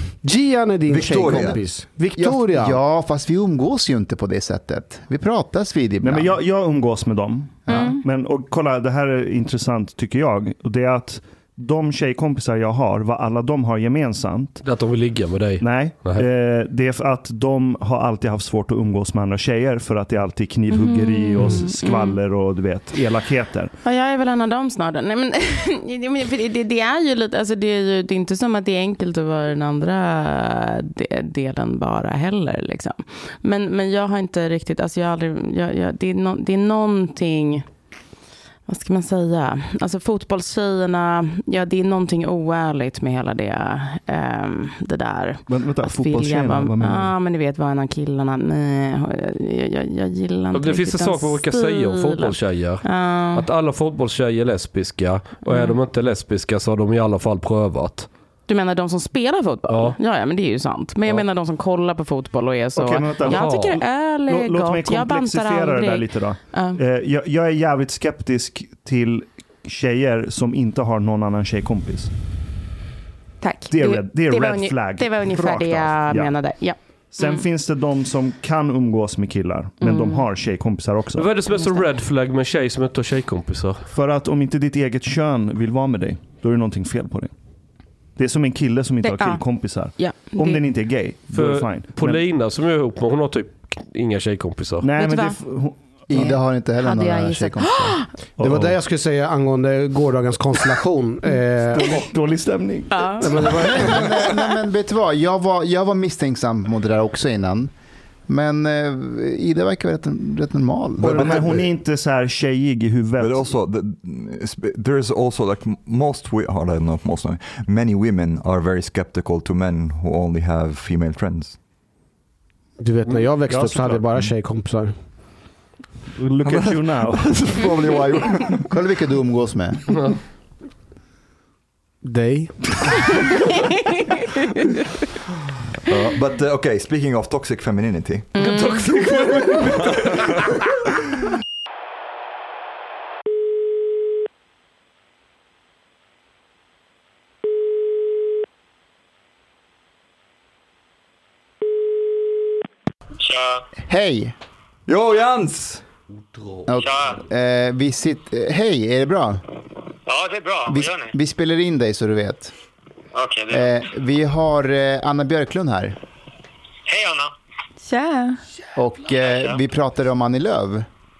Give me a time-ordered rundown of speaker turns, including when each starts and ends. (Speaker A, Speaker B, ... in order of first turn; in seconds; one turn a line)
Speaker A: 0.2-2.8
Speaker B: 0.9-1.6
Speaker C: 1.3-1.6
Speaker C: 2.1-6.3
Speaker D: 6.0-14.6
Speaker E: 7.7-8.0
Speaker F: 14.6-16.3
Speaker D: 15.6-23.7
Speaker E: 20.7-22.2
Speaker E: 23.8-37.6
Speaker E: 38.7-53.5
Speaker D: 45.5-47.1
Speaker F: 50.5-58.1
Speaker E: 55.5-55.8
Speaker E: 58.5-66.8
Speaker F: 59.7-60.0
Speaker D: 62.7-72.1
Speaker F: 63.2-63.8
Speaker E: 73.4-77.4
Speaker D: 73.7-76.3
Speaker D: 77.1-81.3
Speaker E: 79.8-80.2
Speaker F: 81.1-83.9
Speaker E: 81.6-81.8
Speaker D: 83.9-87.3
Speaker D: 88.2-92.2
Speaker E: 89.0-90.6
Speaker F: 91.3-94.9
Speaker D: 94.8-95.8
Speaker E: 95.0-95.4
Speaker C: 96.1-98.0
Speaker E: 96.1-98.1
Speaker D: 98.4-98.8
Speaker A: 98.4-102.0
Speaker D: 101.7-103.7
Speaker E: 102.9-104.1
Speaker A: 103.2-104.2
Speaker C: 103.6-107.7
Speaker C: 108.3-111.7
Speaker D: 111.0-113.5
Speaker A: 111.1-111.4
Speaker B: 113.2-121.6
Speaker A: 122.8-124.9
Speaker D: 123.5-124.1
Speaker D: 126.2-127.4
Speaker B: 126.4-128.7
Speaker C: 128.7-129.8
Speaker A: 132.0-133.3
Speaker B: 135.8-138.4
Speaker E: 138.3-138.9
Speaker F: 138.4-139.8
Speaker G: 153.2-153.7
Speaker C: 153.8-154.3
Speaker B: 154.9-155.8
Speaker C: 156.7-159.4
Speaker G: 156.8-157.2
Speaker G: 160.1-161.1
Speaker C: 160.7-162.5
Speaker G: 163.1-163.7
Speaker C: 163.5-166.0
Speaker G: 166.9-167.3
Speaker E: 167.8-168.4
Speaker C: 168.8-170.8